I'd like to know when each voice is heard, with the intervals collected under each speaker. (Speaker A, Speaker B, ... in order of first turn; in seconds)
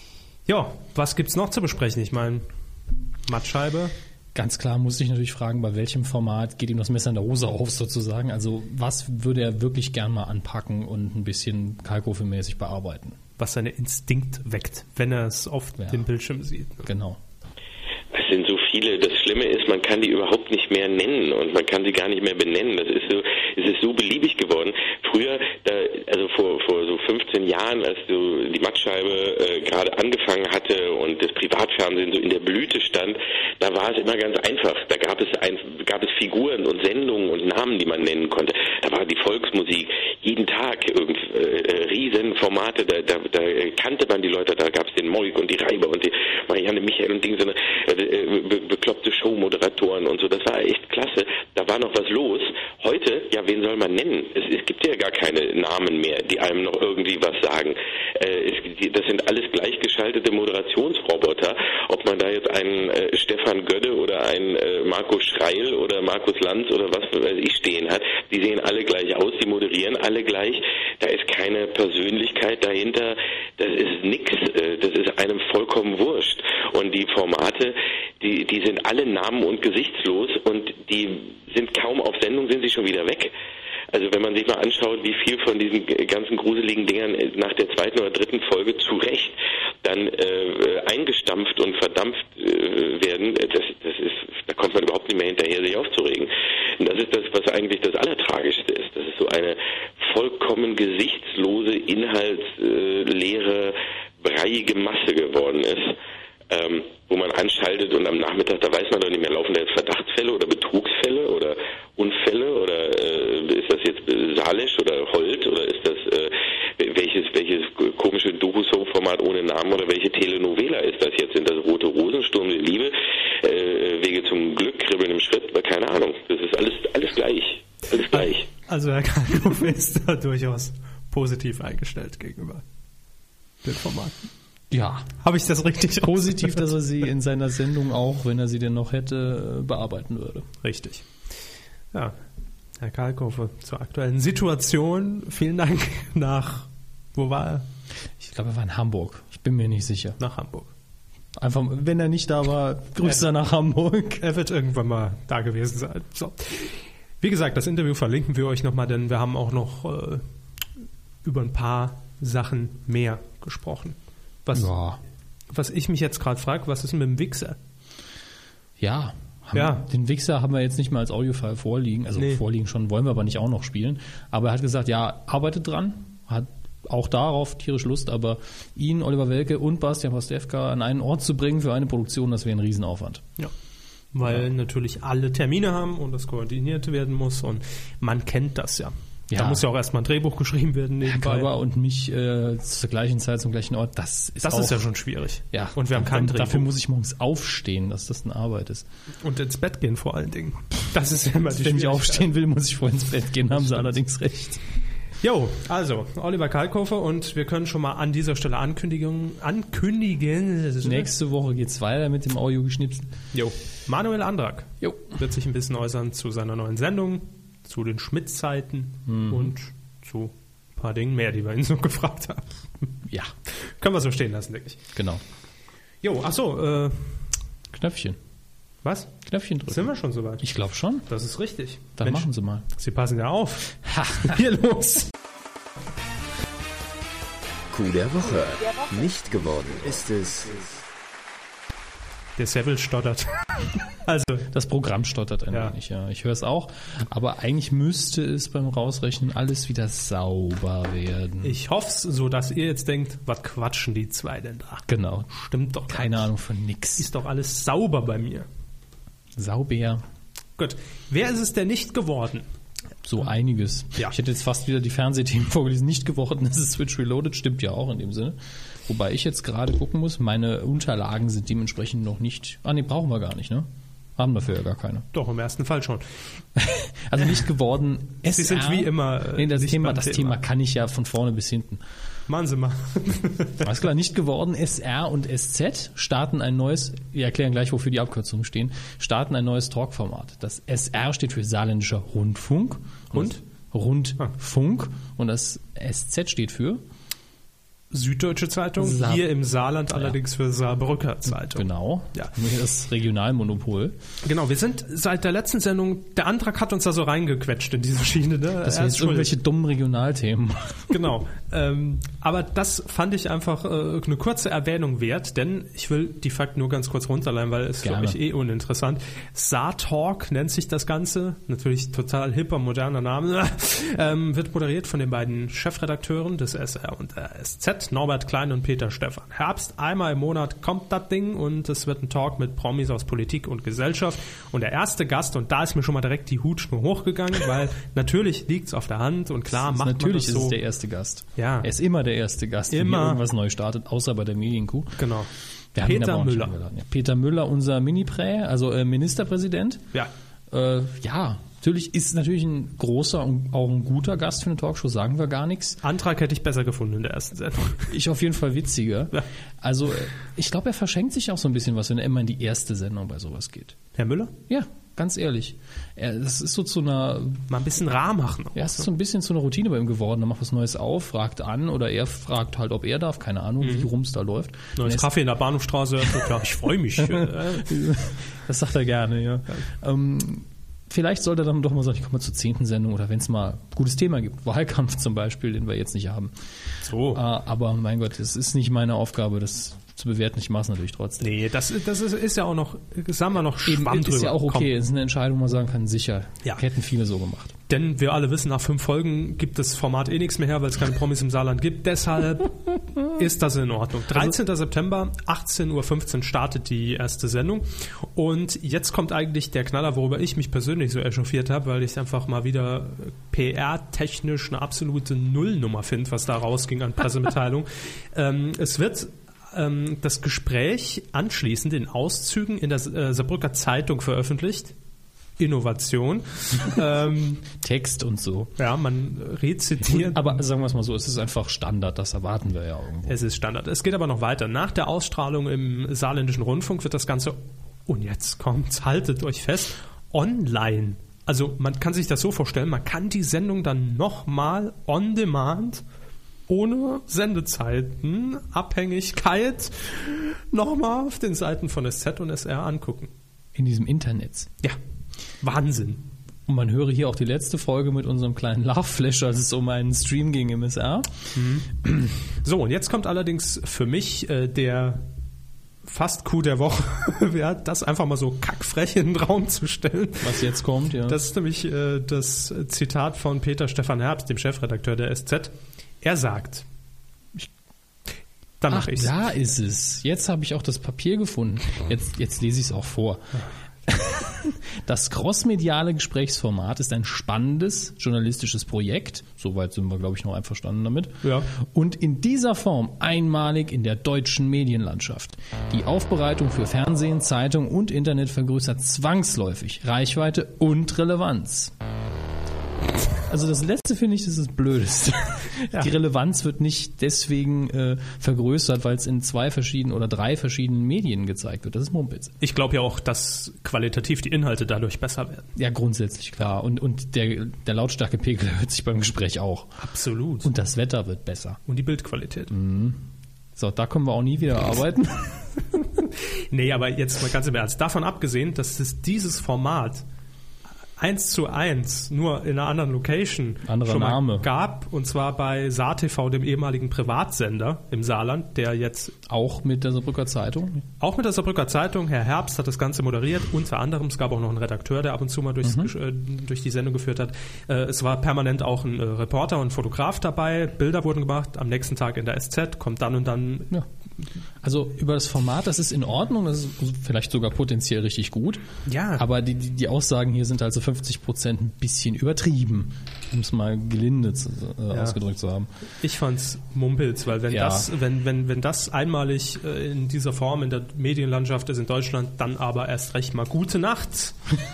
Speaker A: 0.5-2.4, 3.2-3.9, 13.4-16.9, 127.9-132.6, 133.6-134.1, 135.2-136.6, 140.6-141.0, 142.8-147.6, 150.2-150.7, 154.2-160.2, 161.2-164.7, 165.5-167.6, 169.5-169.9, 172.2-172.4, 184.1-191.5, 194.4-196.7, 199.2-202.3, 203.6-203.9, 205.2-211.1, 213.3-222.9, 223.5-224.8, 226.0-227.2, 228.8-229.1, 229.7-230.4, 231.1-235.1, 242.4-243.4, 243.9-244.5, 251.4-256.1, 257.0-258.5, 260.6-262.4, 275.1-276.0, 278.2-280.4, 282.3-283.7, 293.1-293.4, 297.9-302.3, 304.2-309.3, 310.9-340.6, 341.4-341.7, 342.7-343.2, 345.0-345.3, 345.8-346.5, 355.8-357.9, 363.9-364.3, 367.5-368.9, 373.6-373.9, 374.8-377.7, 386.8-387.2, 391.2-394.7, 397.7-424.7, 425.4-427.5, 428.6-430.4, 433.1-445.8, 446.5-453.1, 455.4-456.0, 461.3-461.7, 462.3-465.0, 465.8-470.5, 471.0-476.6, 478.6-479.1, 491.2-491.5, 512.4-515.5, 519.8-520.5, 521.7-522.5, 526.0-530.0, 531.0-539.1, 541.0-553.7, 558.9-559.2, 564.9-565.2, 566.0-574.4
Speaker B: 4.3-13.2, 15.8-16.0, 16.8-17.2, 134.7-135.1, 136.0-140.5, 148.2-150.2, 151.4-154.2, 164.5-165.0, 168.8-183.2, 189.3-189.7, 191.0-194.9, 195.5-198.8, 201.5-204.6, 210.8-213.1, 214.8-215.1, 219.1-219.5, 224.9-225.2, 227.7-228.2, 229.2-231.1, 232.0-232.6, 233.8-234.6, 244.5-251.6, 254.9-255.3, 255.9-257.1, 259.4-260.0, 263.0-275.1, 276.5-281.8, 283.6-296.8, 298.8-299.3, 301.4-304.0, 308.6-311.0, 317.8-318.2, 339.5-345.0, 345.7-349.8, 350.5-355.8, 357.9-363.8, 364.5-367.4, 368.5-375.1, 377.0-386.3, 387.1-391.3, 393.6-397.6, 427.4-428.5, 429.8-433.2, 453.5-454.5, 456.5-461.2, 461.8-462.1, 470.2-471.2, 478.7-501.7, 503.2-512.3, 515.5-519.8, 520.4-521.6, 522.5-523.0, 523.5-525.8, 533.6-534.5, 539.3-540.8, 545.6-545.9, 554.6-558.6, 559.2-565.7, 567.5-567.9
Speaker C: 18.1-83.3, 83.9-106.0, 106.5-128.4
Speaker D: 237.7-240.8